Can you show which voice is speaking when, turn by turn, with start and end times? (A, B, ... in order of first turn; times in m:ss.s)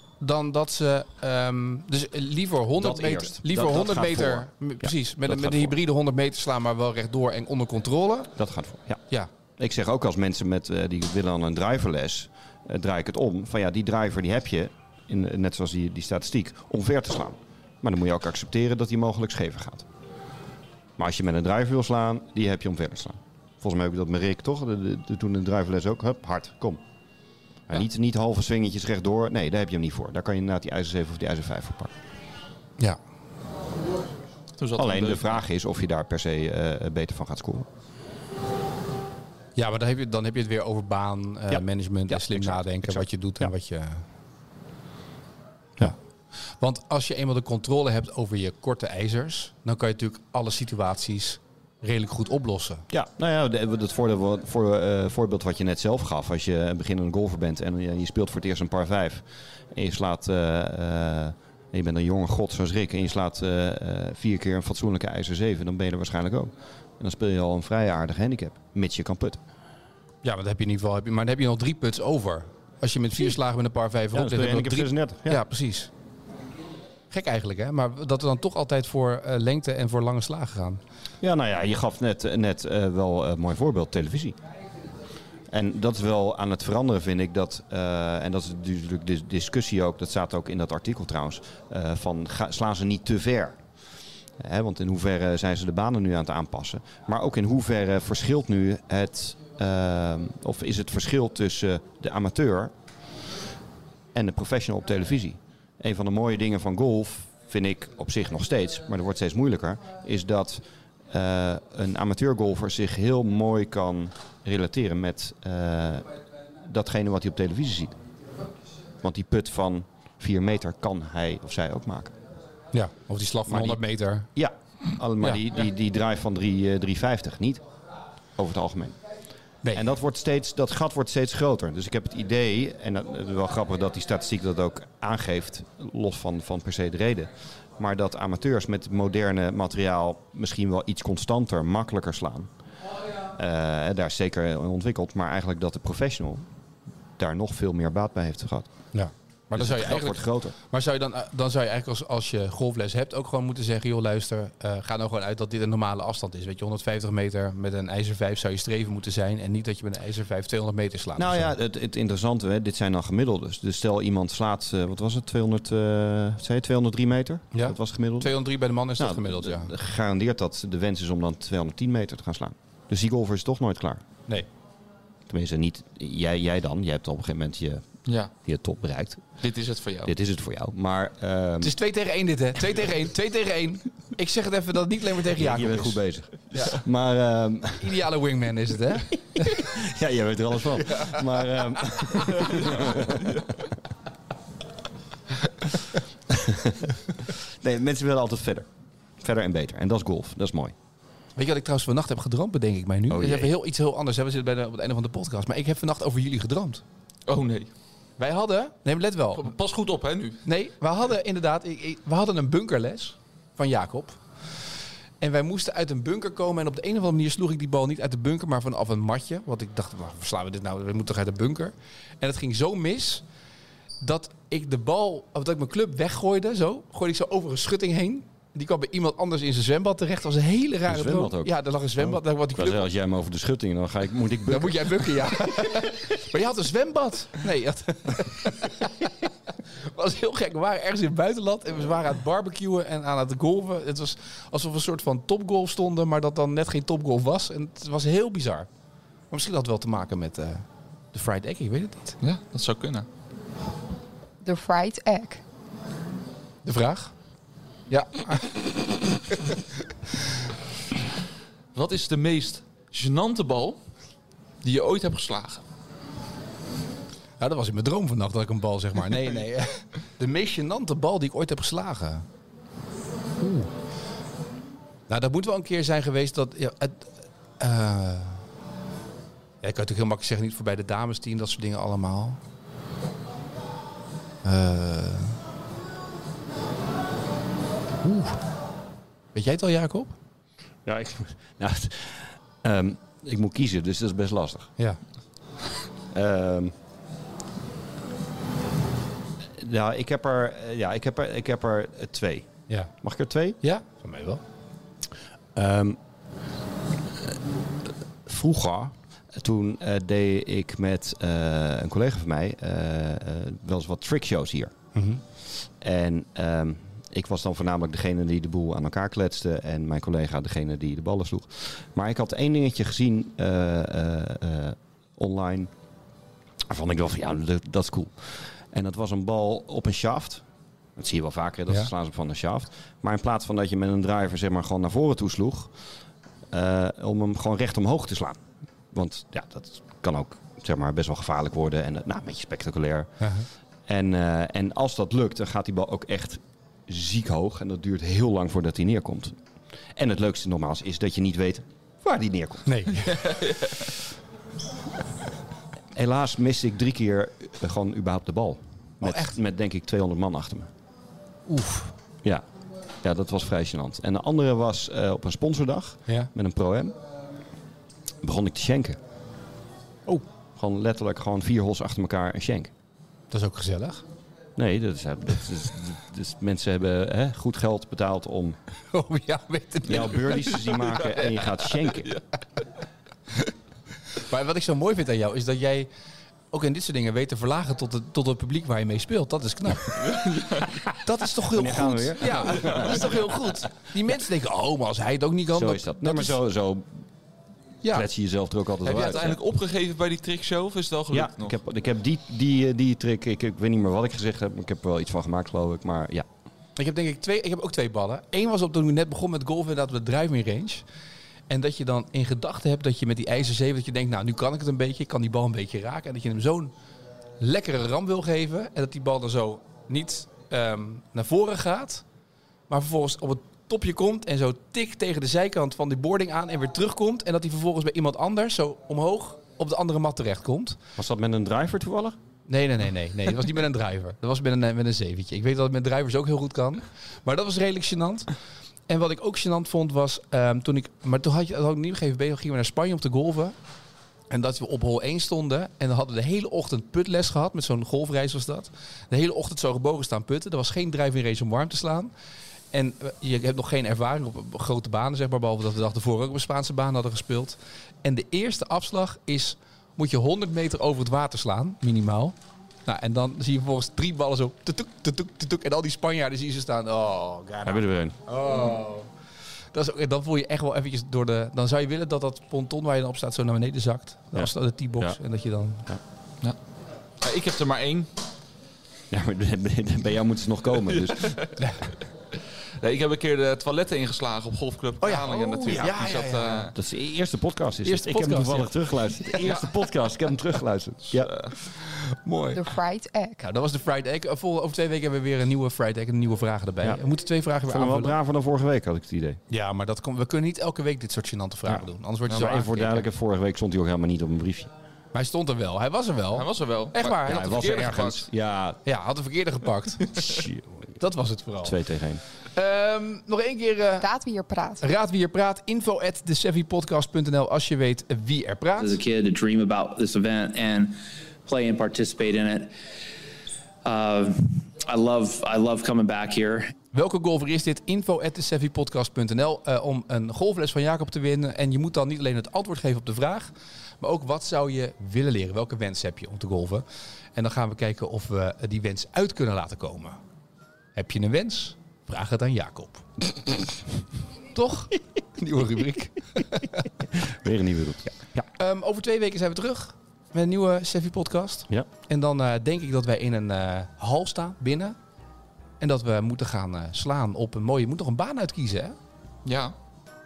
0:00.2-0:08.3 A
0:02.8-0:05.8 B
0:08.4-0:09.0 B
0:09.6-0:19.9 B
0:21.0-0:26.8 B
0:27.7-0:31.9 B
0:34.6-0:35.4 C
0:34.8-0:37.7 B
0:39.6-0:44.0 A
0:41.5-0:43.5 B
0:46.6-0:52.9 A
0:52.9-1:09.4 B
1:10.2-1:15.9 A
1:14.1-1:15.4 B
1:17.1-1:20.8 A
1:21.2-1:24.4 B
1:25.5-1:33.6 B
1:34.4-1:42.7 B
1:44.1-1:56.1 B
1:56.6-1:58.0 B
1:59.0-2:02.1 B
2:02.7-2:04.3 A
2:03.5-2:03.8 B
2:04.4-2:07.6 B
2:08.4-2:09.0 B
2:09.6-2:09.9 A
2:09.7-2:22.5 B
2:23.3-2:26.4 B
2:27.2-2:28.7 B
2:28.9-2:41.6 A
2:29.5-2:30.6 B
2:41.2-2:48.3 B
2:47.5-2:49.7 A
2:49.0-2:54.0 B
2:55.3-2:57.8 B
2:58.1-2:58.3 C
2:58.4-2:59.2 B
2:59.4-3:00.1 C
3:00.0-3:01.8 B
3:01.6-3:06.0 A
3:05.3-3:08.0 B
3:06.5-3:06.8 A
3:07.8-3:09.7 A
3:09.0-3:13.4 B
3:10.8-3:11.3 A
3:12.1-3:12.6 A
3:12.4-3:13.5 C
3:16.3-3:18.7 B
3:19.2-3:20.7 B
3:21.4-3:26.8 A
3:23.1-3:23.5 B
3:27.3-3:27.7 C
3:28.2-3:29.5 A
3:29.4-3:30.4 C
3:30.4-3:34.2 A
3:35.2-3:43.2 A
3:44.0-3:52.9 A
3:50.9-3:55.8 B
3:54.5-3:59.1 A
3:59.8-4:08.7 A
4:09.3-4:12.2 A
4:12.2-4:13.1 C
4:14.4-4:15.4 D
4:16.6-4:17.1 A
4:17.9-4:18.6 A
4:19.3-4:19.6 A
4:21.7-4:23.8 C
4:24.6-4:25.6 C
4:27.4-4:32.2 A
4:33.4-4:33.7 A
4:35.1-4:38.4 A
4:39.6-4:42.4 A
4:44.4-4:45.4 A
4:48.0-4:48.4 A
4:49.4-4:50.1 A
4:50.9-4:54.7 B
4:56.1-4:56.7 B
4:59.6-5:02.5 B
5:03.0-5:03.6 B
5:03.6-5:04.4 A
5:05.6-5:06.0 B
5:08.2-5:14.7 B
5:14.9-5:15.2 A
5:15.8-5:25.7 B
5:26.7-5:30.4 B
5:31.0-5:35.7 B
5:36.5-5:38.4 B
5:38.9-5:43.1 B
5:43.2-5:43.5 A
5:43.9-5:49.4 B
5:50.0-5:53.1 B
5:52.6-5:53.0 A
5:53.0-5:53.9 C
5:55.9-6:00.7 B
5:59.0-5:59.4 A
6:01.5-6:01.9 A
6:03.0-6:07.0 B
6:08.2-6:09.0 B
6:10.6-6:12.7 B
6:13.3-6:14.0 A
6:14.6-6:18.6 B
6:18.9-6:20.6 A
6:19.8-6:22.1 B
6:20.6-6:22.2 C
6:24.1-6:25.9 A
6:26.5-6:36.4 A
6:30.0-6:30.7 C
6:31.4-6:33.3 B
6:32.5-6:32.9 C
6:35.5-6:36.9 B
6:37.9-6:39.4 B
6:38.8-6:41.6 C
6:41.1-6:46.3 B
6:46.8-6:50.8 A
6:51.5-6:56.7 A
6:57.4-7:02.0 A
7:02.7-7:10.8 A
7:11.0-7:12.2 B
7:12.5-7:18.3 A
7:18.9-7:23.5 A
7:24.3-7:32.1 A
7:32.7-7:42.3 A
7:42.9-7:49.1 A
7:47.6-7:48.2 B
7:49.7-7:55.8 A
7:54.3-7:55.2 B
7:57.2-7:58.1 C
7:59.1-8:01.4 B
8:00.8-8:01.6 C
8:02.8-8:06.7 C
8:05.0-8:06.7 A
8:05.7-8:06.0 B
8:06.7-8:11.3 B
8:07.8-8:09.6 A
8:11.1-8:11.5 C
8:11.7-8:12.6 A
8:12.5-8:13.4 D
8:13.4-8:18.2 A
8:17.6-8:19.4 B
8:19.5-8:23.1 A
8:21.6-8:24.7 B
8:25.1-8:27.8 A
8:26.3-8:28.3 C
8:27.2-8:28.8 B
8:28.8-8:30.0 A
8:30.1-8:31.0 B
8:31.0-8:31.8 A
8:31.6-8:32.2 B
8:32.6-8:34.1 A
8:34.0-8:34.8 D
8:34.8-8:39.0 A
8:38.8-8:42.7 E
8:43.8-8:46.7 E
8:46.9-9:00.2 A
9:01.0-9:03.1 A
9:04.5-9:06.9 A
9:07.1-9:08.5 B
9:08.6-9:15.0 A
9:15.8-9:19.0 A
9:19.4-9:19.7 C